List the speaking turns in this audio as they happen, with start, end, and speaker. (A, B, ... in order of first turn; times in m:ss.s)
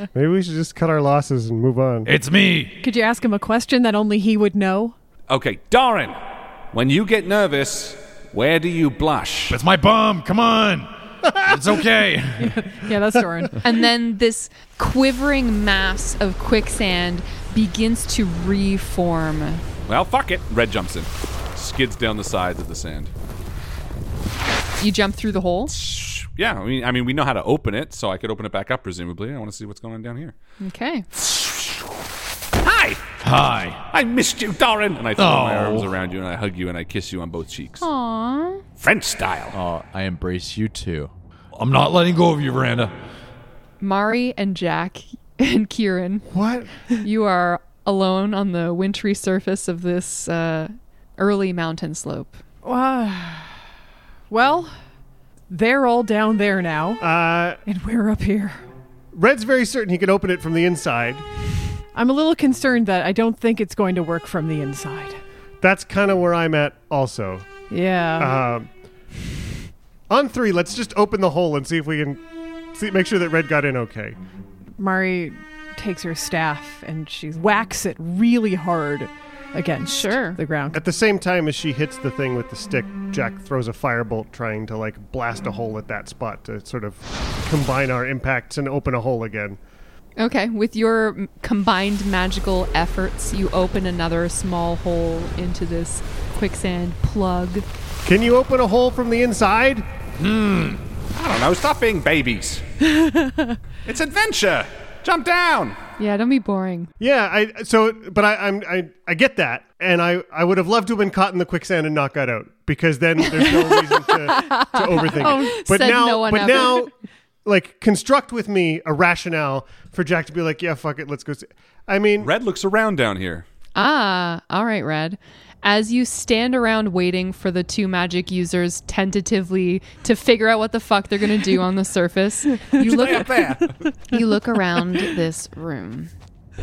0:00.1-0:02.1 A
0:02.0-0:02.8 B
0:02.8-0:04.9 C
0:05.3-0:06.2 D
0:06.7-0:09.6 D
0:09.5-0:12.8 B
0:12.4-0:13.7 C
0:13.6-0:19.6 E
0:19.9-0:23.1 D
0:24.8-0:25.7 E
0:25.7-0:30.3 D
0:30.6-0:31.1 E
0:31.2-0:31.8 D
0:32.6-0:33.0 D
0:33.2-0:33.8 B
0:33.9-0:37.9 D
0:35.2-0:35.9 B
0:37.8-0:38.6 E
0:38.8-0:39.6 D
0:39.5-0:42.9 B
0:43.8-0:46.3 E
0:46.3-0:46.7 A
0:47.0-0:52.4 E
0:52.6-0:53.6 C
0:54.3-0:54.7 C
0:55.5-0:57.0 C
0:57.0-0:57.6 A
0:57.6-0:58.6 C
0:59.1-1:01.2 A
1:01.9-1:05.2 C
1:05.6-1:07.5 A
1:07.7-1:08.4 C
1:08.2-1:08.7 A
1:10.1-1:12.2 A
1:12.7-1:14.2 A
1:14.8-1:20.8 C
1:19.9-1:20.4 E
1:20.7-1:29.6 A
1:30.2-1:37.6 E
1:38.0-1:39.8 A
1:40.2-1:40.8 B
1:41.2-1:42.6 D
1:42.9-1:43.6 C
1:43.8-1:45.8 D
1:46.0-1:46.9 E
1:47.0-1:56.9 A
1:54.3-1:56.9 E
1:55.2-1:55.6 C
1:57.4-2:02.3 A
2:02.2-2:03.4 D
2:03.8-2:13.5 E
2:12.8-2:13.8 D
2:14.1-2:16.1 E